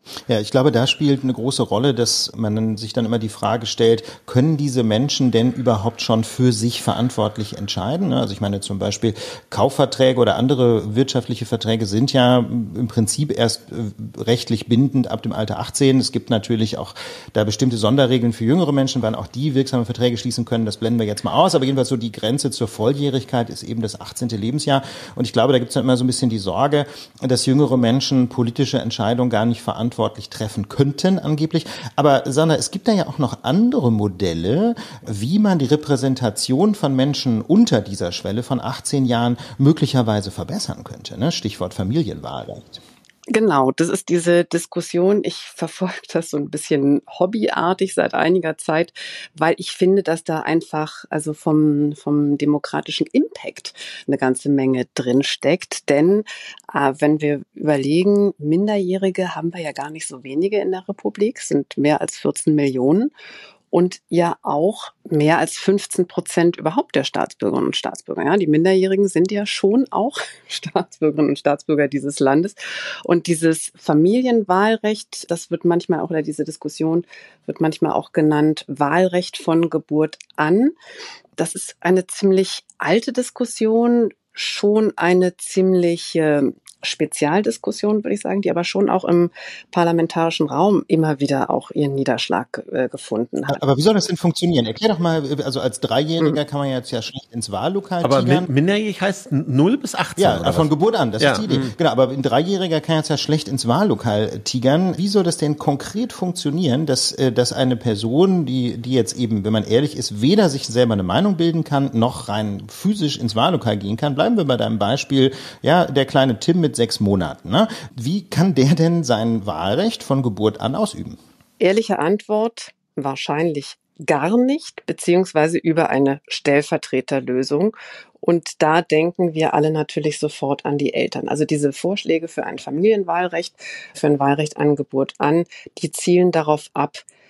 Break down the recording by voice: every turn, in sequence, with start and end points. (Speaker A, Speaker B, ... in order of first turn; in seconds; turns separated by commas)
Speaker A: 0.3-42.8, Speaker B: 43.3-63.1, Speaker B: 63.7-80.7, Speaker B: 81.4-93.6, Speaker A: 93.5-98.5, Speaker C: 98.0-101.7, Speaker A: 100.2-121.2, Speaker B: 121.6-137.0